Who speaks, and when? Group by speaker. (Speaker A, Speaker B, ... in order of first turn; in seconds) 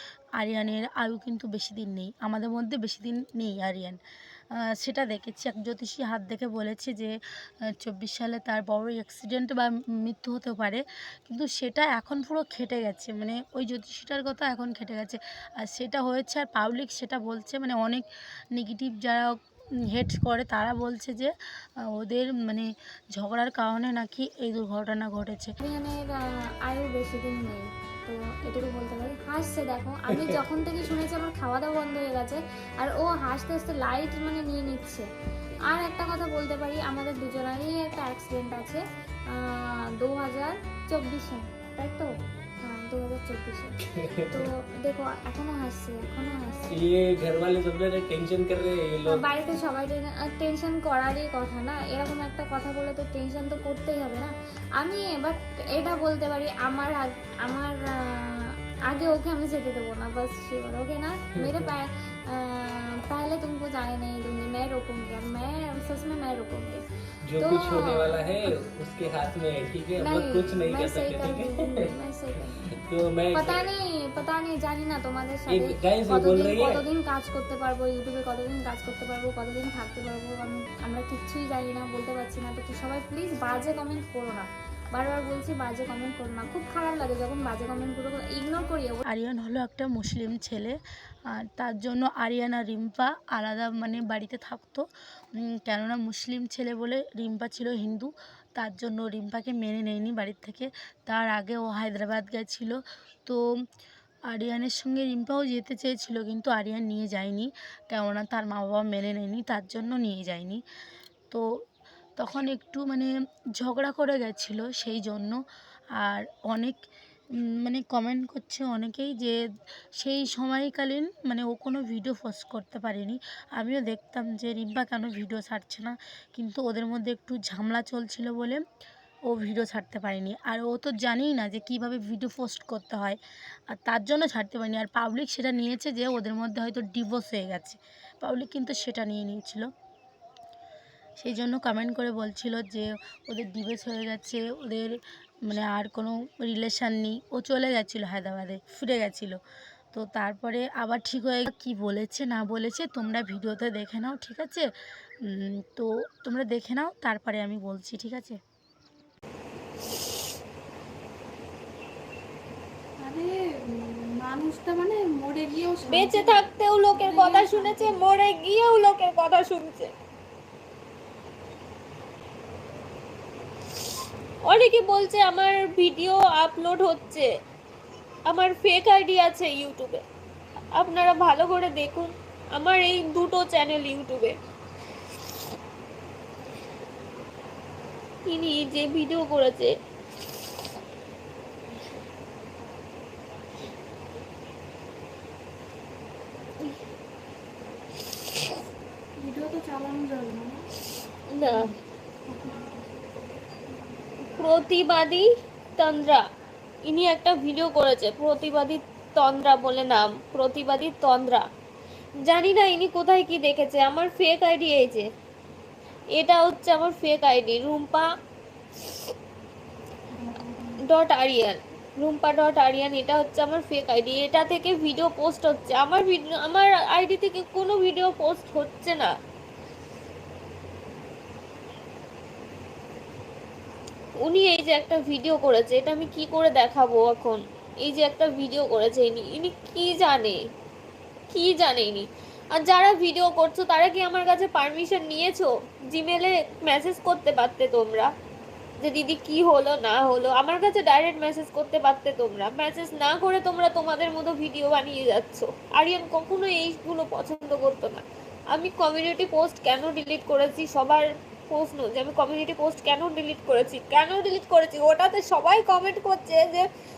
Speaker A: 0.4-4.0, 4.8-7.1, 7.8-19.3, 19.9-21.3, 22.0-25.5, 89.1-90.8, 91.3-94.8, 95.4-103.4, 104.3-110.6, 111.3-111.6, 112.2-115.4, 116.0-116.8, 117.6-119.4, 120.0-128.6, 129.3-133.2, 133.7-139.7, 141.2-149.4, 149.9-154.7, 155.3-158.4
Speaker B: 25.6-26.1, 26.6-35.0, 35.7-43.7, 44.3-46.7, 49.1-66.8, 67.4-68.5, 70.0-72.6, 73.3-89.0
Speaker C: 44.0-44.5, 46.7-49.2, 61.4-61.7, 67.3-73.7, 75.5-76.8
Speaker D: 163.0-168.0, 199.2-200.6, 201.4-201.7, 202.3-202.9, 220.1-220.8
Speaker E: 165.8-169.9, 174.5-177.3, 178.3-180.0, 180.8-184.3, 188.3-189.7, 201.3-201.7, 204.3-205.3, 205.8-206.2, 206.8-211.4, 212.2-215.1, 216.2-218.1, 220.9-229.1, 234.2-240.4, 241.3-248.1, 248.8-266.6